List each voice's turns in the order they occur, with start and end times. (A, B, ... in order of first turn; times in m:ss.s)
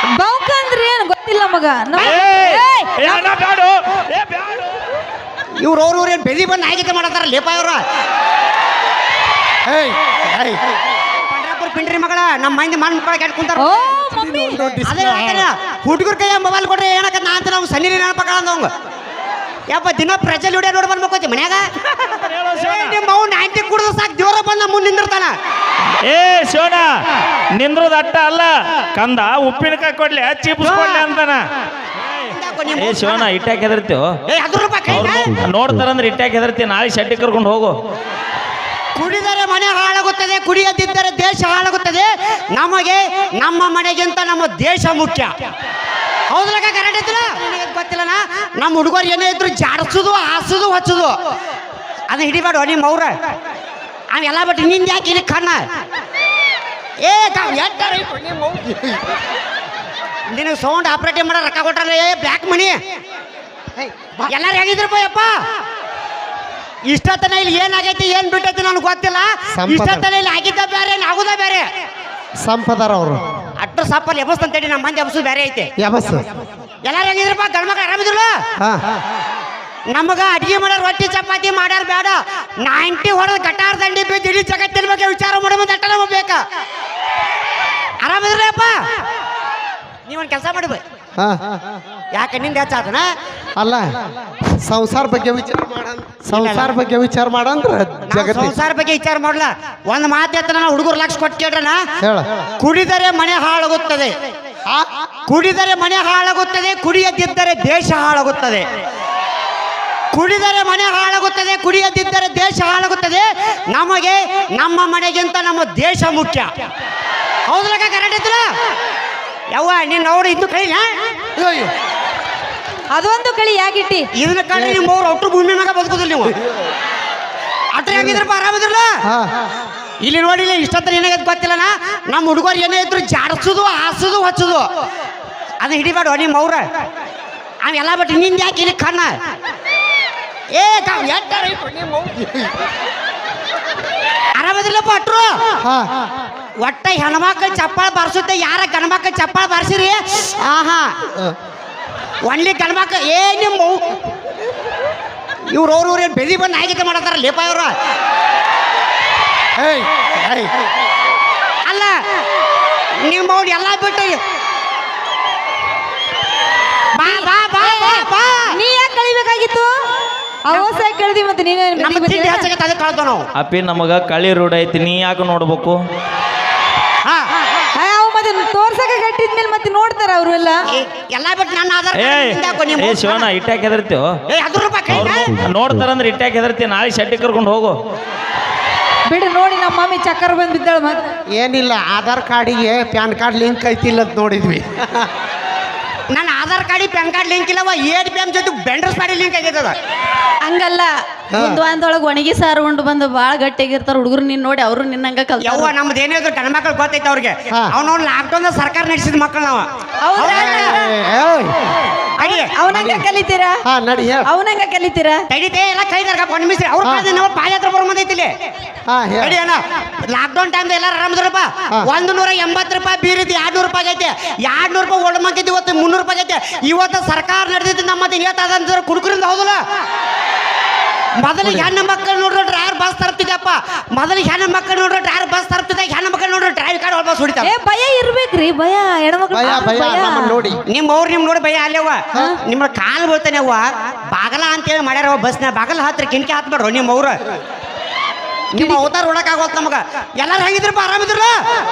0:00.2-0:03.3 A
0:02.0-0:04.7 B
0:05.6-0:07.8 C
0:09.7-0:10.6 D
0:11.3-0:13.7 C
0:13.6-0:14.6 A
0:14.1-0:15.5 D
0:14.8-0:18.7 C
0:19.7-0:25.3 C
0:22.2-0:23.0 B
0:26.0-0:26.9 B
0:27.5-0:31.4 B
0:30.6-0:31.0 C
0:32.3-0:33.2 C
0:32.8-0:34.1 B
0:34.3-0:35.3 C
0:34.9-0:37.8 B
0:39.0-0:45.3 C
0:46.3-0:51.1 C
0:52.1-0:53.1 C
0:54.1-0:55.6 C
0:57.0-0:58.1 C
0:58.0-0:59.0 D
1:00.3-1:02.8 C
1:03.8-1:04.3 D
1:04.3-1:05.3 C
1:06.9-1:11.7 C
1:09.5-1:10.1 D
1:12.4-1:13.2 D
1:13.6-1:15.7 C
1:15.8-1:16.2 D
1:16.8-1:18.4 C
1:19.9-1:26.4 C
1:28.0-1:28.8 C
1:30.1-1:30.8 C
1:31.2-1:31.6 D
1:32.1-1:33.1 C
1:33.6-1:33.9 D
1:34.6-1:38.6 D
1:36.3-1:36.8 C
1:38.1-1:41.8 C
1:42.0-1:42.3 D
1:42.6-1:44.2 C
1:45.3-1:48.7 C
1:50.1-1:56.5 C
1:57.5-1:58.5 C
1:59.5-2:00.9 C
2:01.4-2:01.7 D
2:02.9-2:04.1 A
2:04.2-2:06.3 C
2:04.5-2:04.9 D
2:07.7-2:08.9 C
2:07.9-2:08.2 D
2:09.0-2:09.3 D
2:10.0-2:14.7 C
2:15.6-2:16.6 C
2:17.7-2:19.1 C
2:20.5-2:22.0 C
2:24.4-2:25.4 C
2:25.6-2:25.9 D
2:26.6-2:30.9 C
2:32.2-2:33.8 C
2:35.5-2:37.7 C
2:39.6-2:40.5 D
2:41.7-2:42.0 C
2:43.0-2:44.2 C
2:47.0-2:48.5 C
2:47.0-2:49.7 A
2:50.5-2:52.5 A
2:51.8-2:53.2 C
2:53.4-2:55.8 B
2:57.8-3:00.6 A
3:00.7-3:03.3 C
3:01.9-3:04.1 B
3:04.3-3:05.3 C
3:04.9-3:07.7 B
3:09.1-3:11.0 A
3:11.4-3:15.1 D
3:16.1-3:19.7 C
3:20.5-3:20.8 E
3:21.3-3:21.6 D
3:21.4-3:25.7 E
3:25.4-3:30.8 C
3:30.0-3:30.6 A
3:30.2-3:31.6 D
3:32.2-3:32.6 C
3:32.2-3:33.6 A
3:32.7-3:33.0 D
3:33.7-3:34.3 D
3:34.2-3:35.2 A
3:35.3-3:38.3 C
3:38.9-3:39.4 D
3:39.2-3:49.6 C
3:51.2-3:57.5 C
3:51.4-3:51.7 D
3:57.4-4:00.4 A
3:59.3-4:00.6 D
4:00.7-4:07.2 C
4:08.6-4:11.4 C